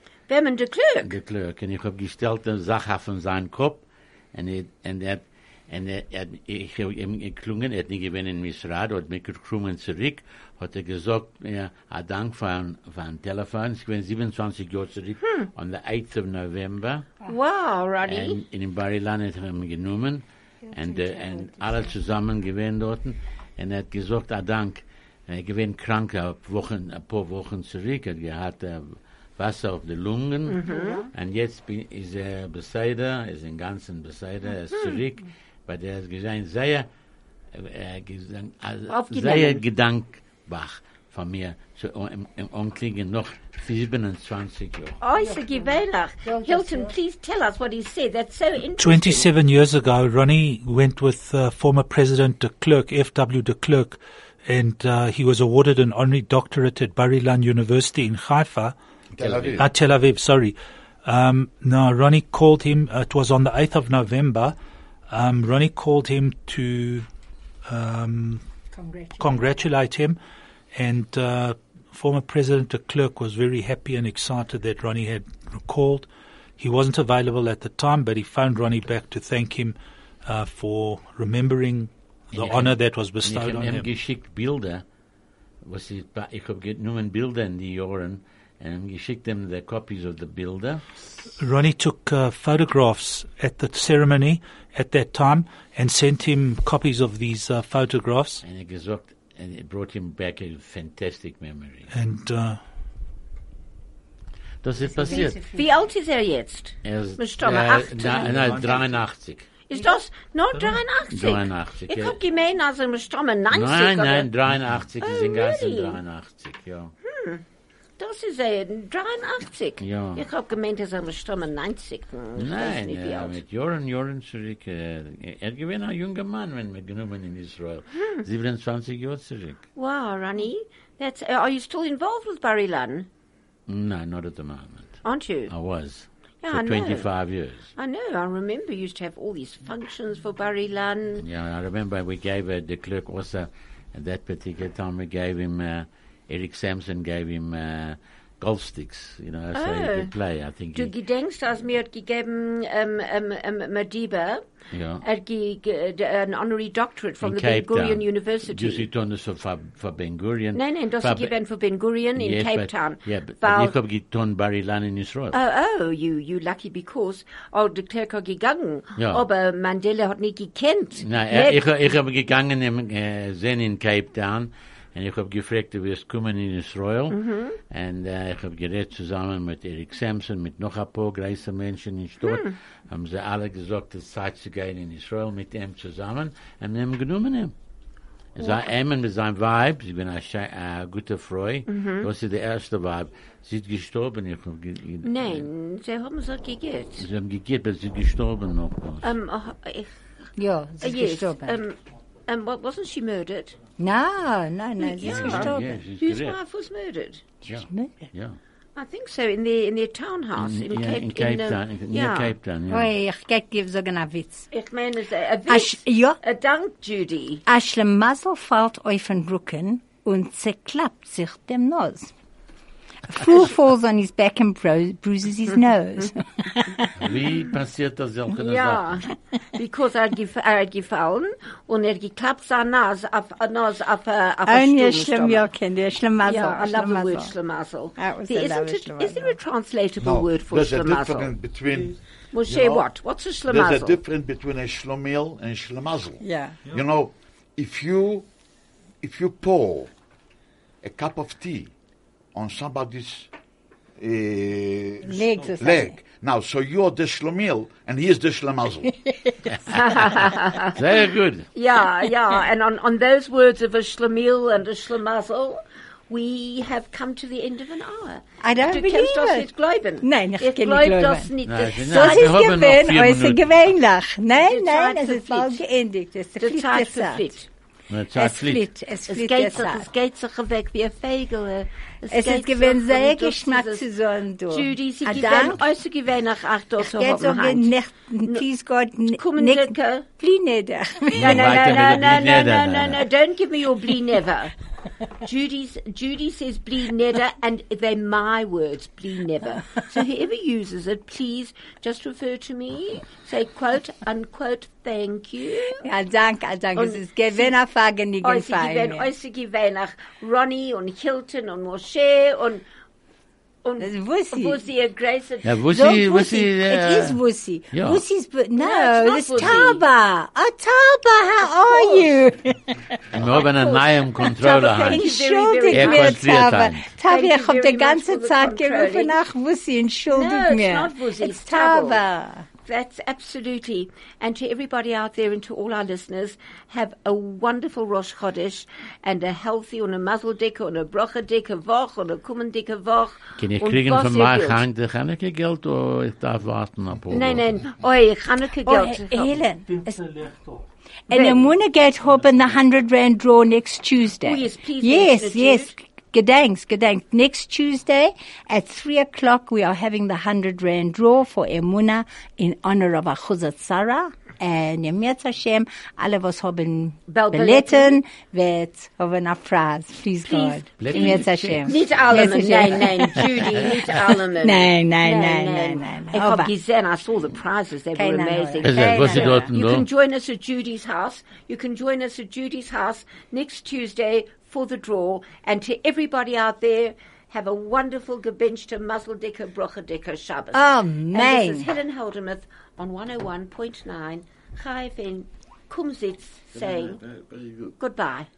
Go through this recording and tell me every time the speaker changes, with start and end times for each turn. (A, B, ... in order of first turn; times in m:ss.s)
0:00.3-0:01.2 A
0:01.0-0:17.1 B
0:17.3-0:18.4 A
0:18.0-0:36.9 B
0:20.6-0:21.9 C
0:30.5-0:31.0 A
0:30.7-0:31.1 C
0:34.7-0:35.0 A
0:37.5-0:45.0 B
0:38.9-0:39.6 A
0:45.0-0:49.3 A
0:45.2-0:47.0 C
0:48.8-0:58.8 D
0:59.2-0:59.7 E
0:59.2-0:59.6 B
0:59.6-1:04.6 D
1:05.1-1:07.1 D
1:07.7-1:08.4 D
1:08.7-1:09.5 C
1:09.2-1:10.2 D
1:10.8-1:23.9 D
1:22.3-1:24.8 B
1:25.6-1:30.8 B
1:31.4-1:38.4 D
1:38.4-1:41.9 B
1:41.9-1:42.6 D
1:44.6-1:45.4 B
1:44.8-1:45.7 C
1:45.1-1:48.6 A
1:46.8-1:49.5 B
1:48.2-1:48.6 D
1:49.7-1:54.3 A
1:51.1-1:52.2 B
1:53.5-1:56.9 B
1:55.0-1:56.0 A
1:57.0-1:57.4 A
1:58.0-2:03.4 A
1:59.8-2:00.2 B
2:02.4-2:09.6 B
2:09.8-2:13.1 A
2:13.7-2:17.7 B
2:15.0-2:15.5 A
2:16.4-2:17.1 A
2:17.8-2:21.2 A
2:21.2-2:30.9 B
2:29.5-2:30.1 A
2:30.7-2:34.4 A
2:34.7-2:35.0 B
2:35.0-2:38.9 A
2:37.2-2:41.3 B
2:40.5-2:43.8 A
2:42.2-2:45.4 B
2:45.3-2:51.7 A
2:49.0-2:49.3 B
2:51.0-3:07.5 B
2:57.1-2:57.6 A
3:02.2-3:02.6 A
3:08.4-3:15.5 B
3:08.4-3:08.7 A
3:11.7-3:12.1 A
3:15.0-3:17.1 A
3:17.0-3:19.1 B
3:19.0-3:19.9 A
3:20.4-3:21.6 C
3:20.8-3:23.6 A
3:23.8-3:25.7 C
3:24.8-3:27.2 A
3:25.0-3:26.4 B
3:27.4-3:28.1 C
3:27.5-3:28.4 B
3:28.8-3:32.3 A
3:30.4-3:32.9 B
3:32.7-3:34.5 C
3:34.5-3:37.4 A
3:35.5-3:36.2 C
3:37.5-3:42.1 C
3:43.1-3:46.9 C
3:47.0-3:49.0 B
3:48.3-3:55.5 A
3:54.4-3:57.3 C
3:56.2-4:01.3 A
3:58.0-3:59.4 C
4:00.0-4:02.9 E
4:02.3-4:04.0 A
4:03.5-4:08.3 E
4:06.2-4:06.6 C
4:09.0-4:09.9 E
4:10.8-4:11.7 E
4:12.3-4:13.3 E
4:14.0-4:18.9 E
4:15.0-4:16.0 C
4:19.0-4:19.4 C
4:19.5-4:21.5 B
4:19.7-4:20.8 A
4:21.6-4:32.4 A
4:28.4-4:29.5 C
4:30.0-4:37.3 C
4:31.4-4:33.6 B
4:34.4-4:35.6 A
4:36.4-4:37.5 A
4:37.9-4:38.6 B
4:38.2-4:39.9 C
4:39.1-4:43.9 A
4:42.1-4:45.6 C
4:44.5-4:47.7 A
4:46.8-4:51.6 C
4:49.2-4:50.1 A
4:51.1-4:54.5 A
4:51.2-4:53.0 B
4:55.2-5:05.8 A
5:05.8-5:09.1 C
5:06.8-5:07.6 A
5:08.2-5:12.6 A
5:13.6-5:15.6 A
5:13.8-5:14.6 C
5:15.4-5:17.2 B
5:15.7-5:23.0 C
5:17.7-5:18.0 B
5:18.6-5:19.8 A
5:21.6-5:22.1 A
5:23.1-5:25.1 B
5:23.2-5:26.2 A
5:24.4-5:32.5 C
5:25.7-5:26.9 B
5:27.0-5:29.2 A
5:30.1-5:32.0 A
5:32.6-5:44.6 A
5:43.4-5:47.4 B
5:47.1-5:49.3 A
5:48.6-5:50.0 C
5:49.7-5:50.6 D
5:51.1-6:16.5 C
5:51.1-5:51.4 A
5:54.2-5:55.7 A
6:07.1-6:08.0 A
6:10.2-6:37.0 A
6:10.8-6:12.1 B
6:13.2-6:14.1 B
6:18.0-6:19.5 C
6:18.6-6:19.9 B
6:30.5-6:31.7 C
6:37.0-6:37.7 E
6:37.8-6:38.3 A